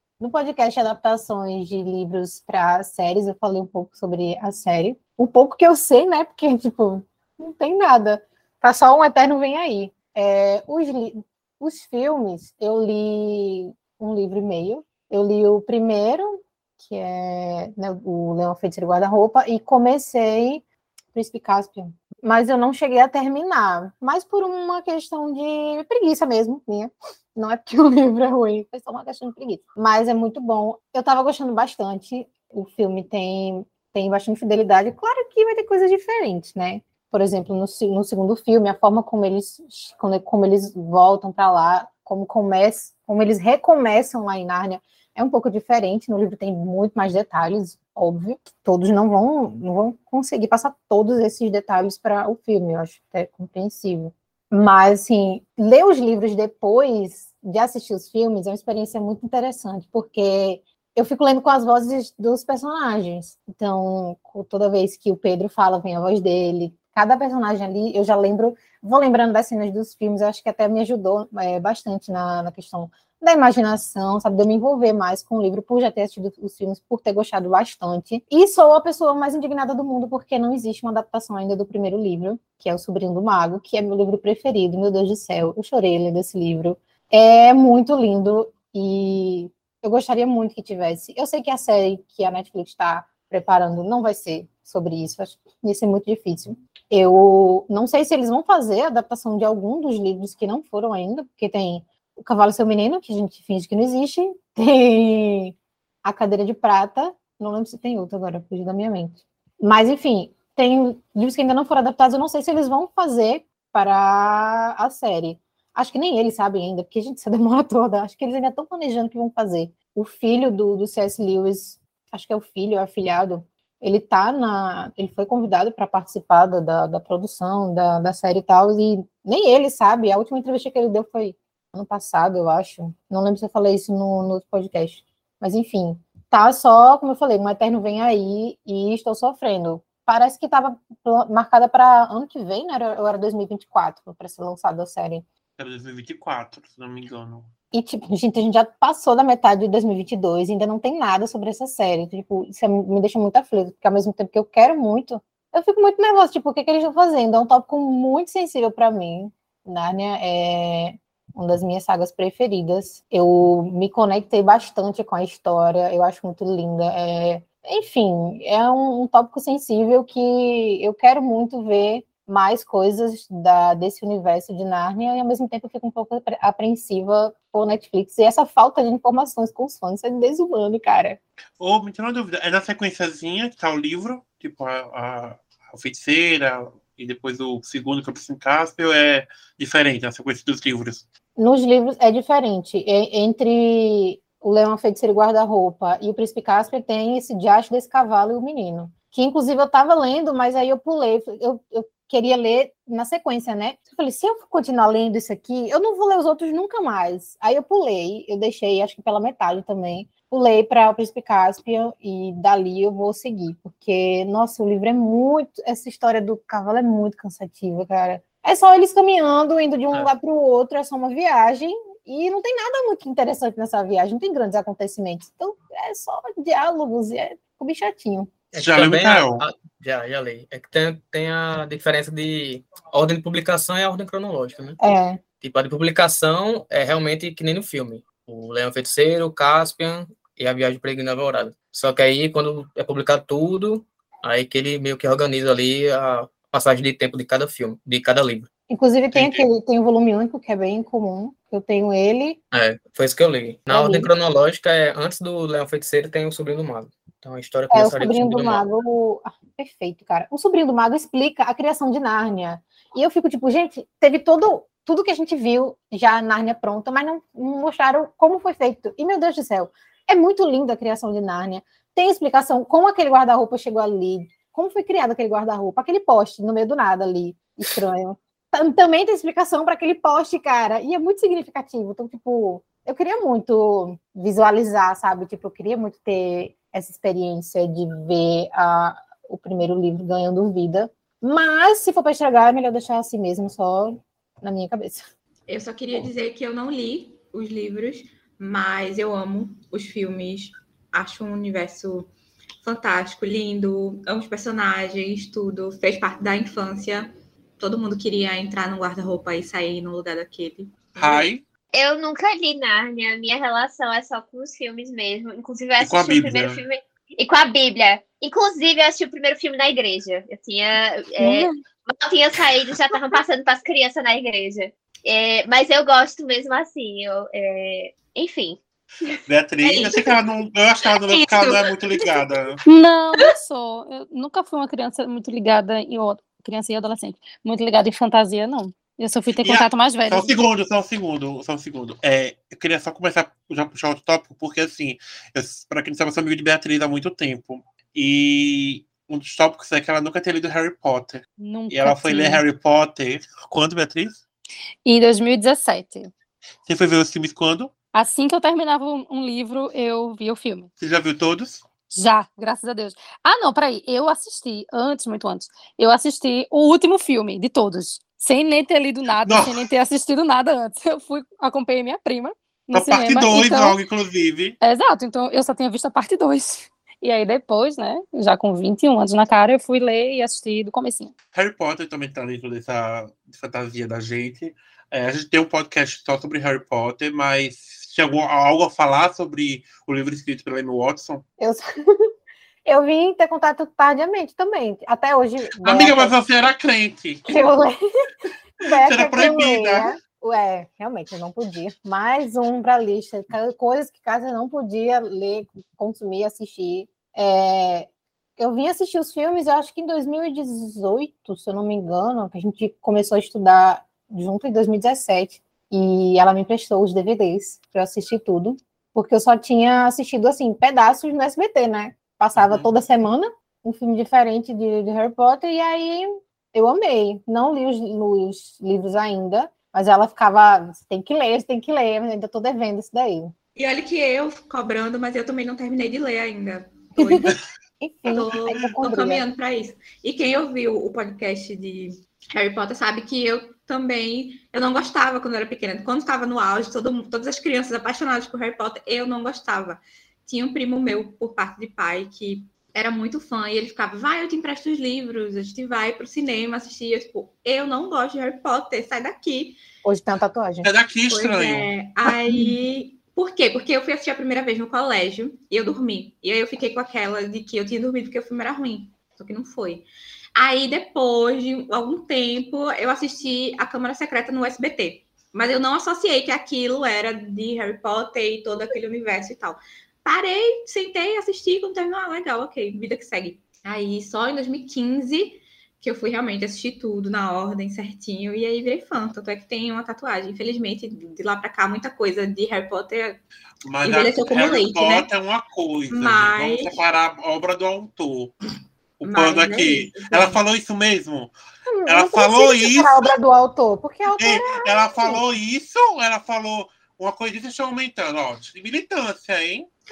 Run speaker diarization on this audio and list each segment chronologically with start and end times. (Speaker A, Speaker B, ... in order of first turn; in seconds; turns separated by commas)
Speaker A: 0.2-145.2, Speaker B: 145.6-147.5, Speaker A: 147.7-181.2, Speaker B: 181.6-191.1, Speaker A: 191.4-228.5, Speaker C: 228.5-234.8, Speaker B: 228.6-229.4, Speaker A: 234.8-235.2, Speaker C: 235.4-248.5, Speaker A: 248.7-252.4, Speaker B: 249.1-249.4, Speaker C: 252.5-258.6, Speaker A: 253.7-254.1, Speaker A: 257.7-295.1, Speaker D: 295.5-302.1, Speaker D: 302.6-311.3, Speaker B: 310.9-311.4, Speaker E: 311.7-328.6, Speaker B: 315.8-316.6, Speaker F: 321.2-321.5, Speaker B: 329.3-332.6, Speaker D: 329.6-330.1, Speaker D: 331.1-332.3, Speaker F: 332.6-340.3, Speaker B: 339.4-354.2, Speaker F: 351.4-352.4, Speaker F: 354.8-356.1, Speaker B: 356.6-357.7, Speaker F: 357.9-360.7, Speaker B: 360.8-361.6, Speaker F: 361.9-373.8, Speaker B: 369.2-369.6, Speaker B: 372.7-374.6, Speaker F: 374.6-381.1, Speaker B: 381.3-391.2, Speaker A: 392.6-396.1, Speaker B: 395.6-397.2, Speaker A: 397.3-397.8, Speaker A: 398.6-433.3, Speaker B: 398.8-399.9, Speaker B: 422.4-422.7, Speaker D: 433.6-437.3, Speaker A: 437.0-437.3, Speaker A: 437.8-439.2, Speaker D: 438.1-459.6, Speaker A: 459.8-460.7, Speaker B: 460.6-461.7, Speaker D: 461.1-493.2, Speaker A: 462.1-462.5, Speaker B: 493.6-498.4, Speaker D: 493.8-495.1, Speaker D: 495.9-496.8, Speaker B: 499.0-501.3, Speaker D: 499.0-500.4, Speaker A: 501.7-505.2, Speaker B: 501.9-503.1, Speaker B: 504.2-509.7